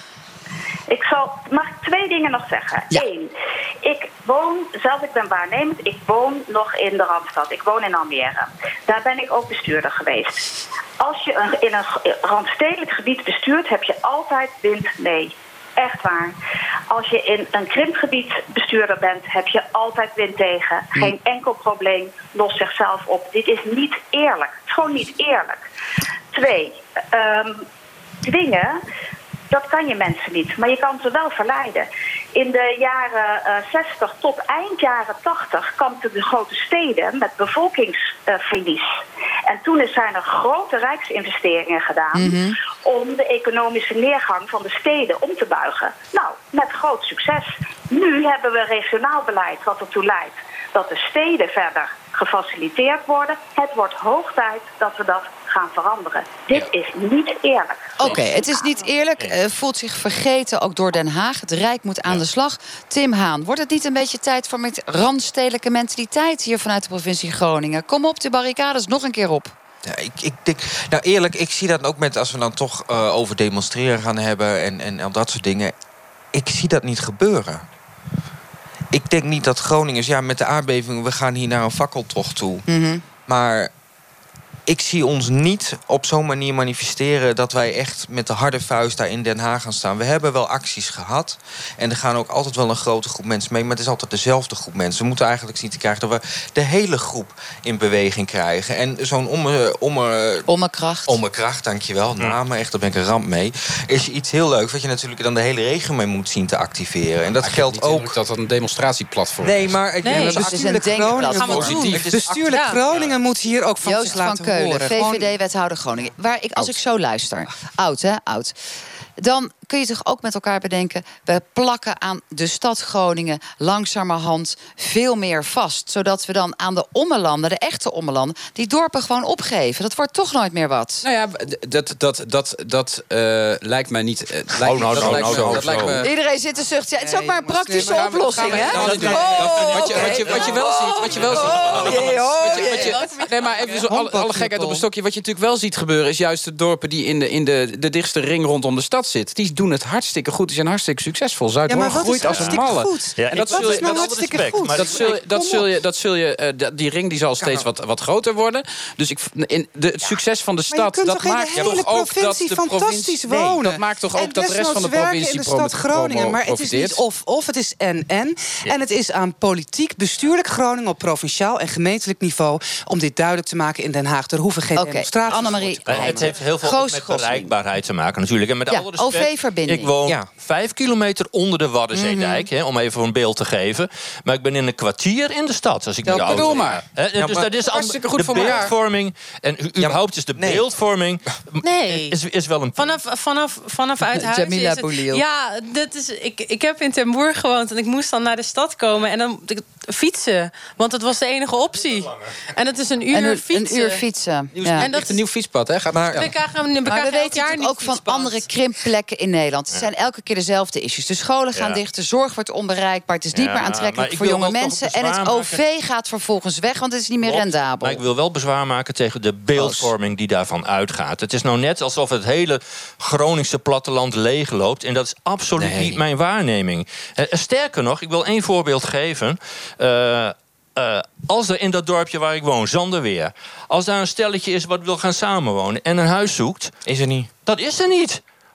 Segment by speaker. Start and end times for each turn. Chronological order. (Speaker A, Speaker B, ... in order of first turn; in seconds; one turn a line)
Speaker A: 0.9-10.5
Speaker A: 11.0-16.3
Speaker A: 16.9-25.6
Speaker A: 26.3-27.6
Speaker A: 28.2-28.8
Speaker A: 29.5-58.8
Speaker B: 42.1-42.5
Speaker B: 58.0-69.5
Speaker C: 69.8-75.7
Speaker C: 76.3-77.6
Speaker C: 78.9-82.7
Speaker B: 82.7-83.0
Speaker C: 83.2-83.7
Speaker C: 84.7-100.5
Speaker B: 100.5-101.2
Speaker C: 101.0-108.2
Speaker D: 107.4-109.9
Speaker C: 109.4-112.0
Speaker E: 110.0-110.4
Speaker F: 110.1-115.3
Speaker B: 110.1-111.8
Speaker E: 111.3-112.8
Speaker D: 111.6-112.1
Speaker B: 113.8-118.5
Speaker B: 119.2-131.0
Speaker D: 131.0-136.1
Speaker G: 134.6-136.0
Speaker C: 135.1-135.7
Speaker B: 136.0-143.2
Speaker F: 137.0-140.6
Speaker D: 137.8-167.0
Speaker F: 141.2-141.5
Speaker F: 142.5-143.0
Speaker E: 142.5-143.7
Speaker F: 143.7-144.8
Speaker B: 143.9-144.7
Speaker F: 151.7-155.7
Speaker G: 152.2-152.7
Speaker G: 153.2-155.2
Speaker F: 157.4-157.7
Speaker F: 160.7-176.3
Speaker B: 174.8-177.5
Speaker G: 175.9-193.0
Speaker B: 178.7-179.9
Speaker B: 181.9-182.4
Speaker D: 186.1-186.8
Speaker C: 187.2-187.5
Speaker D: 187.7-188.7
Speaker C: 189.8-190.6
Speaker E: 191.6-192.2
Speaker E: 192.8-204.0
Speaker B: 194.1-195.2
Speaker B: 203.1-204.9
Speaker D: 204.6-206.3
Speaker E: 204.8-205.2
Speaker C: 205.9-206.2
Speaker E: 206.2-208.4
Speaker B: 206.9-218.0
Speaker G: 211.6-211.8
Speaker G: 213.3-215.6
Speaker G: 217.2-236.7
Speaker C: 219.5-219.9
Speaker C: 225.6-226.0
Speaker C: 236.9-237.3
Speaker G: 237.4-238.2